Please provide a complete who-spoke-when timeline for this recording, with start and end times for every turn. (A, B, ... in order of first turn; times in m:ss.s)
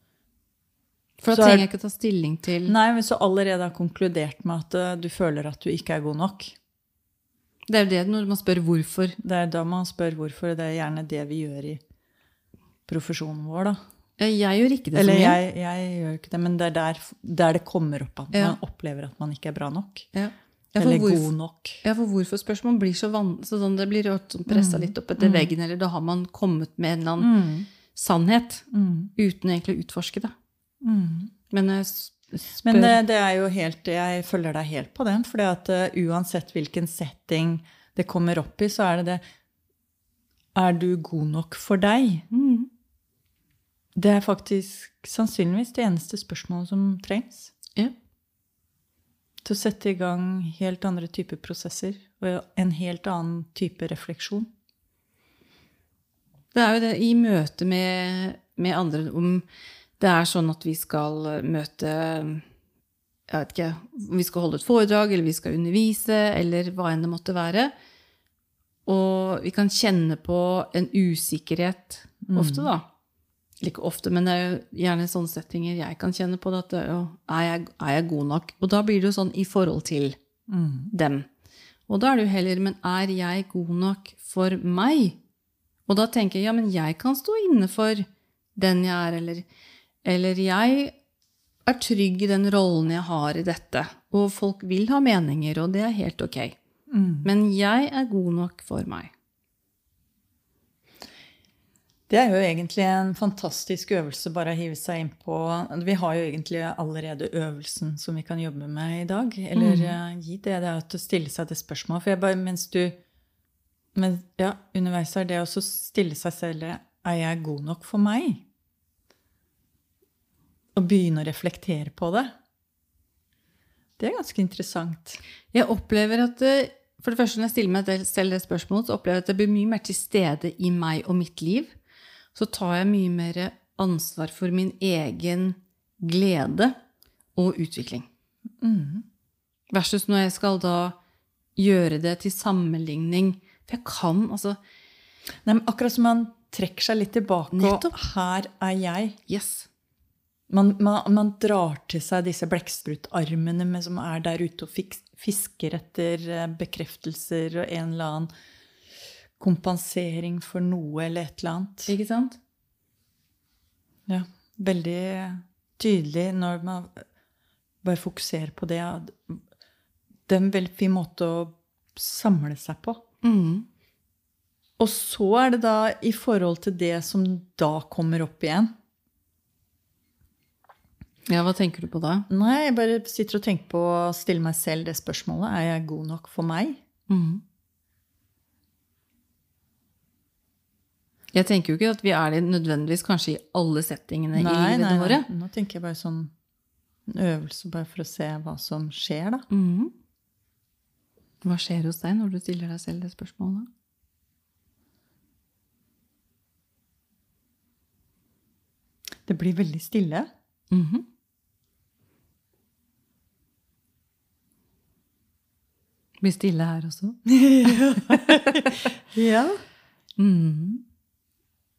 0:01.2-0:02.8 A
0:01.3-0:01.7 B
0:02.7-0:06.6 B
0:07.7-0:09.2 A
0:09.2-0:11.8 B
0:12.9-0:13.8 B
0:14.2-0:15.4 A
0:15.0-0:20.1 B
0:18.3-0:18.6 A
0:20.1-0:21.3 A
0:20.8-0:21.8 B
0:21.8-0:27.3 A
0:24.5-0:25.5 B
0:27.2-0:27.7 B
0:27.9-0:30.3 A
0:28.7-0:29.1 B
0:30.8-0:31.3 B
0:31.5-0:33.0 A
0:32.6-0:39.2 B
0:40.6-0:42.3 B
0:42.3-0:42.7 A
0:44.0-0:47.5 B
0:49.4-0:54.5 B
0:56.5-0:59.4 A
1:00.0-1:02.4 A
1:03.3-1:07.7 A
1:08.9-1:12.8 A
1:12.3-1:12.7 B
1:13.6-1:20.2 A
1:20.5-1:20.9 B
1:20.9-1:21.3 A
1:21.9-1:25.2 A
1:25.9-1:28.0 A
1:28.6-1:29.5 A
1:30.0-1:30.9 A
1:31.7-1:36.6 A
1:36.9-1:37.3 B
1:37.2-1:39.1 A
1:42.1-1:53.0 B
1:49.6-1:50.0 A
1:54.0-1:58.4 B
2:00.8-2:02.3 B
2:04.0-2:05.2 B
2:05.5-2:11.7 A
2:12.3-2:16.7 A
2:17.4-2:18.1 A
2:18.6-2:19.0 B
2:19.7-2:21.0 A
2:21.6-2:24.6 A
2:25.4-2:29.2 B
2:27.5-2:27.9 A
2:29.3-2:29.7 A
2:30.5-2:38.3 B
2:39.4-2:41.9 B
2:41.9-2:42.4 A
2:44.1-2:47.0 B
2:47.8-2:49.4 B
2:50.3-2:53.0 B
2:53.2-2:53.7 A
2:54.8-2:58.7 B
3:01.3-3:02.3 A
3:02.3-3:06.8 B
3:07.1-3:07.4 A
3:11.3-3:15.3 A
3:14.4-3:16.3 B
3:17.1-3:19.5 B
3:19.5-3:19.9 A
3:21.4-3:23.7 A
3:29.3-3:30.3 B
3:30.7-3:31.0 A
3:36.2-3:38.9 A
3:37.3-3:39.6 B
3:40.2-3:40.8 A